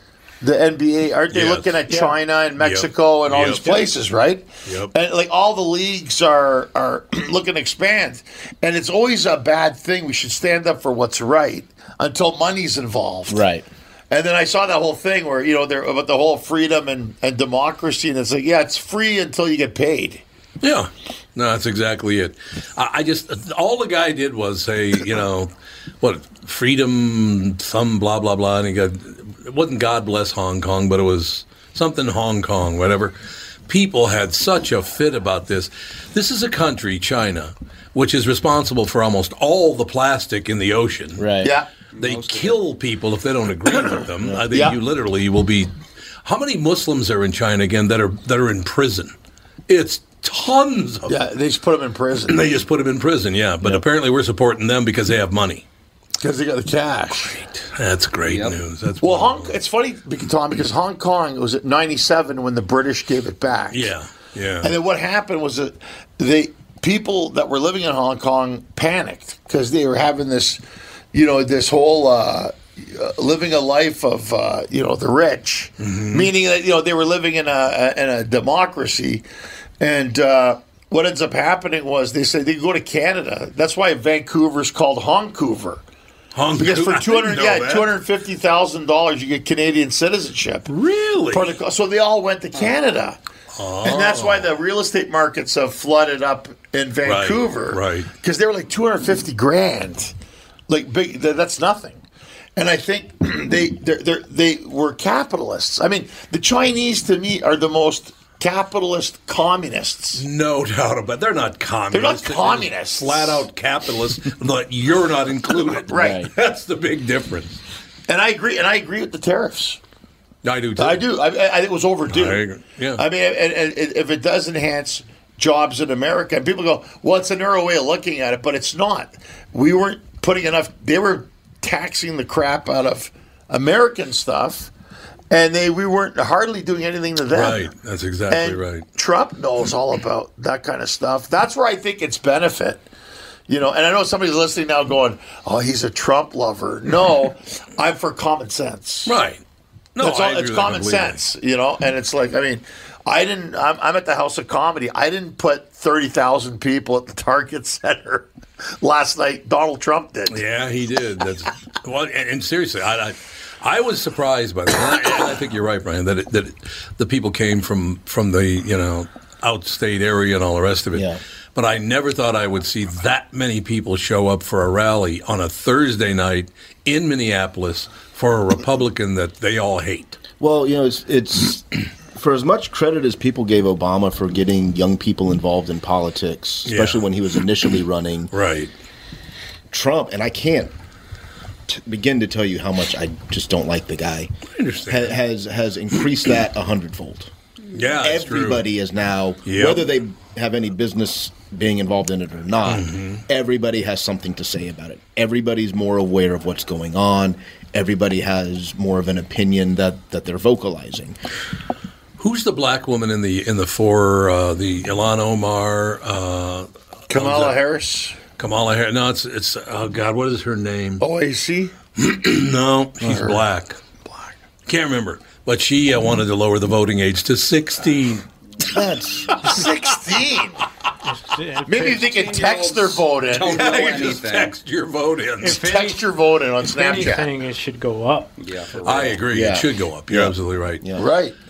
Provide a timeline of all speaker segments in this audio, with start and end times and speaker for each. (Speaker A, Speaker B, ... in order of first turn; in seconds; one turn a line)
Speaker A: 0.4-13.4
Speaker B: 1.3-1.8
Speaker C: 1.9-2.1
Speaker B: 2.6-3.9
Speaker B: 4.7-4.9
Speaker D: 13.3-13.6
Speaker A: 14.1-20.2
Speaker B: 20.6-33.1
Speaker B: 33.7-41.3
Speaker D: 41.2-41.5
Speaker A: 41.4-41.7
Speaker E: 41.9-42.6
Speaker B: 42.0-45.7
Speaker A: 43.7-44.8
Speaker B: 46.2-49.1
Speaker B: 49.7-51.2
Speaker A: 51.1-52.4
Speaker B: 52.3-55.6
Speaker A: 56.2-57.4
Speaker B: 57.3-59.5
Speaker E: 58.2-58.5
Speaker A: 59.0-63.9
Speaker B: 63.7-64.7
Speaker A: 64.6-70.6
Speaker A: 71.1-79.2
Speaker B: 75.8-76.3
Speaker A: 79.8-85.8
Speaker B: 86.3-87.9
Speaker A: 86.6-90.7
Speaker B: 90.7-91.5
Speaker A: 91.3-93.2
Speaker B: 93.6-94.5
Speaker A: 93.8-100.1
Speaker B: 97.0-98.1
Speaker A: 100.7-102.0
Speaker A: 102.5-110.2
Speaker B: 110.1-117.6
Speaker A: 111.9-113.5
Speaker A: 115.5-116.2
Speaker D: 115.9-116.3
Speaker A: 118.1-119.8
Speaker B: 120.4-121.0
Speaker A: 120.8-134.7
Speaker B: 122.1-123.0
Speaker A: 135.3-137.7
Speaker B: 137.3-138.8
Speaker A: 138.3-142.8
Speaker A: 143.5-149.1
Speaker B: 149.1-149.4
Speaker B: 149.9-151.2
Speaker A: 150.0-158.3
Speaker A: 158.8-160.4
Speaker B: 160.3-180.2
Speaker D: 170.9-171.2
Speaker D: 180.4-188.3
Speaker B: 186.7-187.0
Speaker B: 188.3-188.7
Speaker D: 189.7-190.7
Speaker D: 191.7-194.3
Speaker B: 194.6-195.2
Speaker D: 194.9-197.3
Speaker B: 197.7-198.6
Speaker D: 198.0-211.2
Speaker B: 199.4-199.9
Speaker B: 202.7-203.2
Speaker B: 212.2-217.6
Speaker A: 217.1-218.2
Speaker B: 218.4-221.0
Speaker A: 221.0-221.7
Speaker B: 221.9-223.8
Speaker A: 223.0-223.4
Speaker B: 224.7-228.2
Speaker D: 228.6-229.3
Speaker A: 229.4-230.6
Speaker C: 231.0-232.3
Speaker A: 231.6-233.8
Speaker E: 232.2-234.6
Speaker B: 233.4-235.7
Speaker A: 235.4-237.3
Speaker C: 235.4-236.0
Speaker C: 236.7-238.3
Speaker E: 238.4-239.2
Speaker B: 238.8-240.8
Speaker D: 239.3-241.0
Speaker A: 240.9-241.3